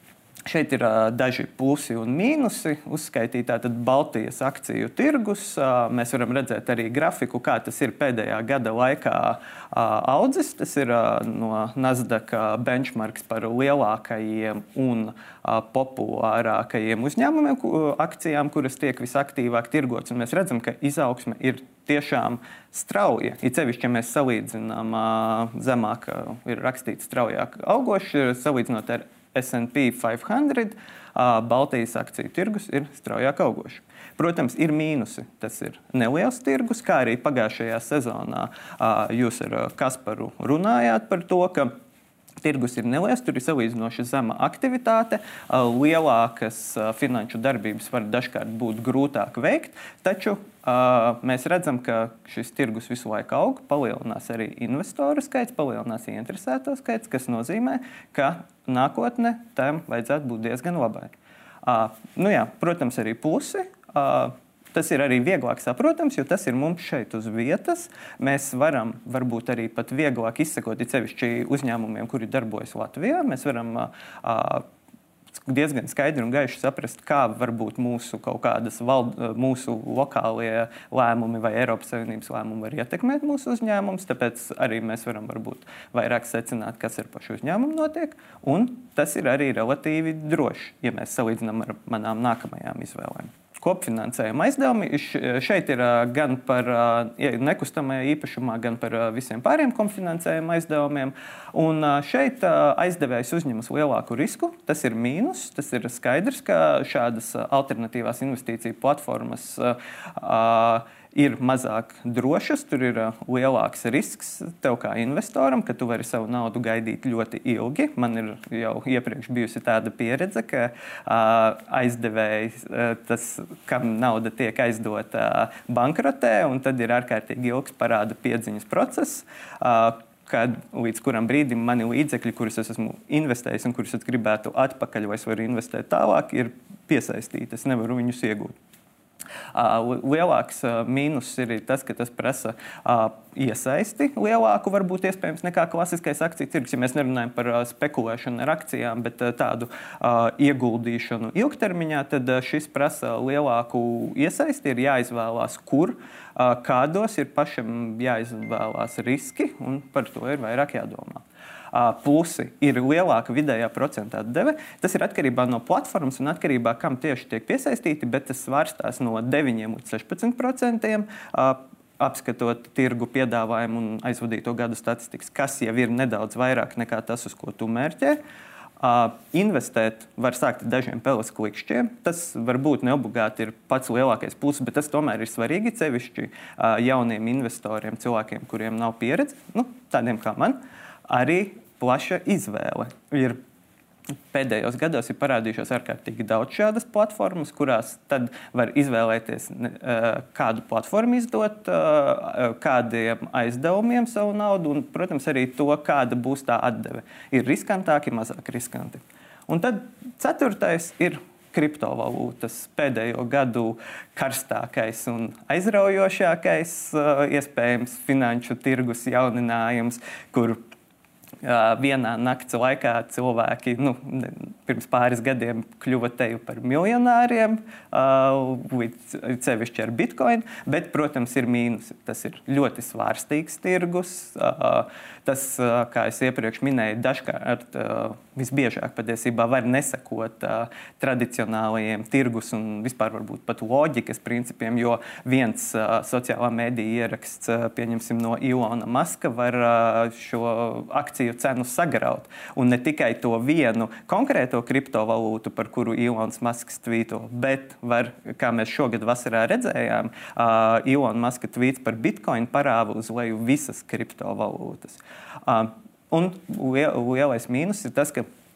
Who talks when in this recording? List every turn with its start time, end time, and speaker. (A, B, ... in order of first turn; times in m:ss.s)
0:00.5-0:41.7 A
0:42.4-1:01.1 A
1:01.6-1:14.6 A
1:15.4-2:18.6 A
2:19.5-2:58.2 A
2:58.8-3:13.4 A
3:14.3-3:40.6 A
3:41.4-4:28.3 A